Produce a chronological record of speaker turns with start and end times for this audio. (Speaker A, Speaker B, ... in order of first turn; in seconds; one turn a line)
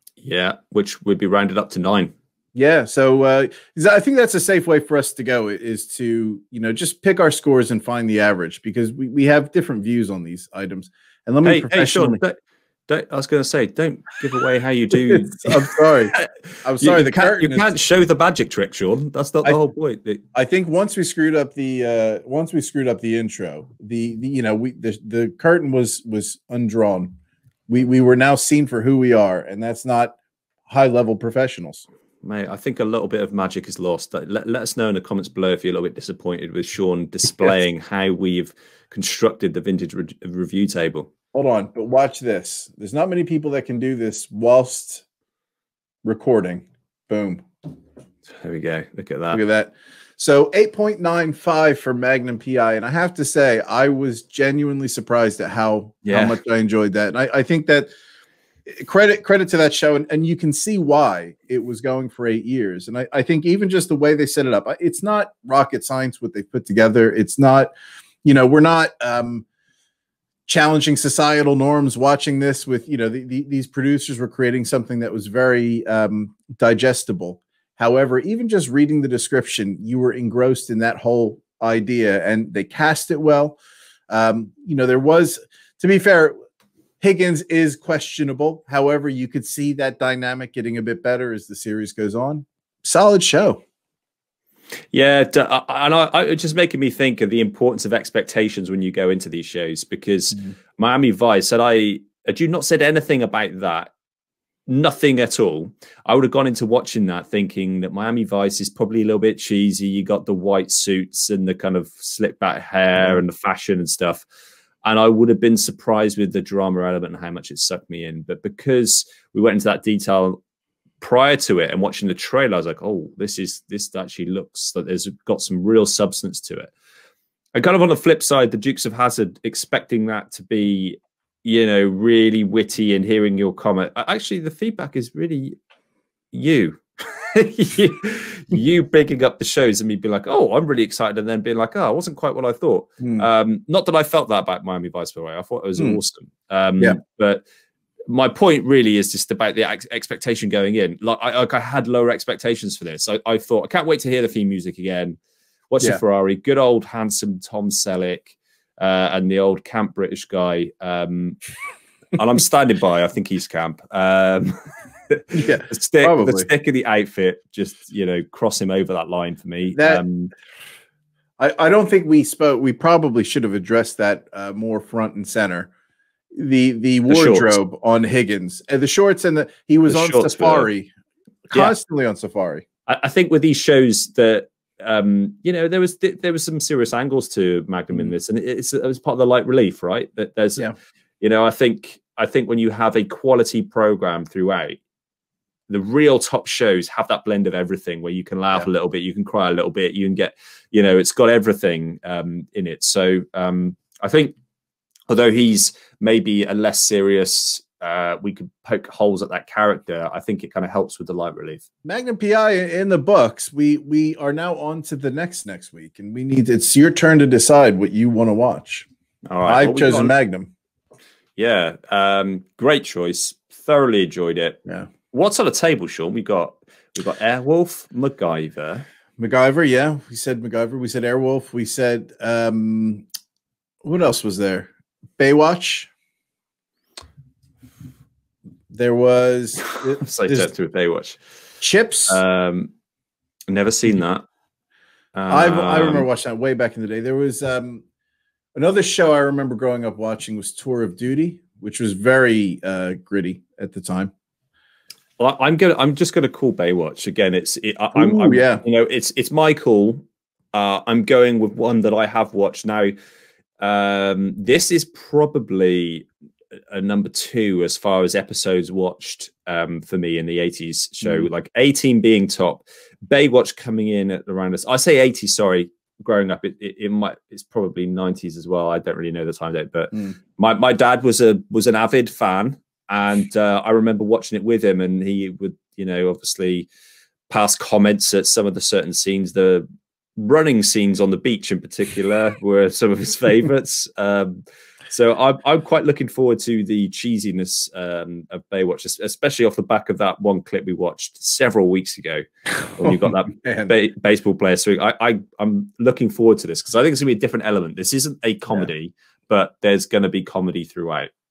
Speaker A: 0.2-2.1
Speaker B: 2.5-12.2
Speaker A: 11.4-20.2
Speaker B: 15.1-17.7
Speaker B: 20.3-27.2
Speaker B: 27.7-30.2
Speaker B: 30.7-31.9
Speaker A: 32.2-41.1
Speaker B: 41.3-45.0
Speaker B: 46.0-47.5
Speaker A: 48.4-49.4
Speaker B: 49.3-57.9
Speaker A: 56.0-56.4
Speaker B: 58.7-67.7
Speaker B: 68.2-69.5
Speaker B: 70.5-83.6
Speaker B: 84.1-86.4
Speaker B: 87.0-93.6
Speaker A: 94.9-103.9
Speaker A: 104.7-114.2
Speaker A: 114.8-120.4
Speaker A: 121.0-126.7
Speaker A: 127.5-135.6
Speaker A: 136.3-147.4
Speaker B: 143.0-143.3
Speaker A: 148.1-155.2
Speaker A: 155.7-161.4
Speaker A: 162.2-170.3
Speaker B: 165.3-166.5
Speaker B: 169.8-170.0
Speaker B: 171.4-175.7
Speaker B: 176.3-180.9
Speaker A: 177.1-177.6
Speaker A: 179.9-180.7
Speaker B: 181.5-182.7
Speaker A: 182.9-190.7
Speaker A: 191.2-194.8
Speaker A: 195.7-204.3
Speaker A: 205.1-211.7
Speaker B: 211.8-218.9
Speaker A: 219.3-220.2
Speaker B: 219.4-220.5
Speaker A: 221.4-224.6
Speaker A: 225.1-228.9
Speaker B: 229.2-233.0
Speaker B: 233.8-235.9
Speaker B: 238.7-240.5
Speaker A: 240.0-241.2
Speaker B: 241.6-242.2
Speaker A: 242.1-242.7
Speaker A: 243.5-244.2
Speaker A: 245.2-246.1
Speaker B: 245.3-247.8
Speaker B: 248.6-254.1
Speaker A: 255.2-263.0
Speaker B: 257.9-258.6
Speaker A: 263.6-266.1
Speaker A: 266.7-286.7
Speaker A: 287.3-311.1
Speaker B: 302.8-303.7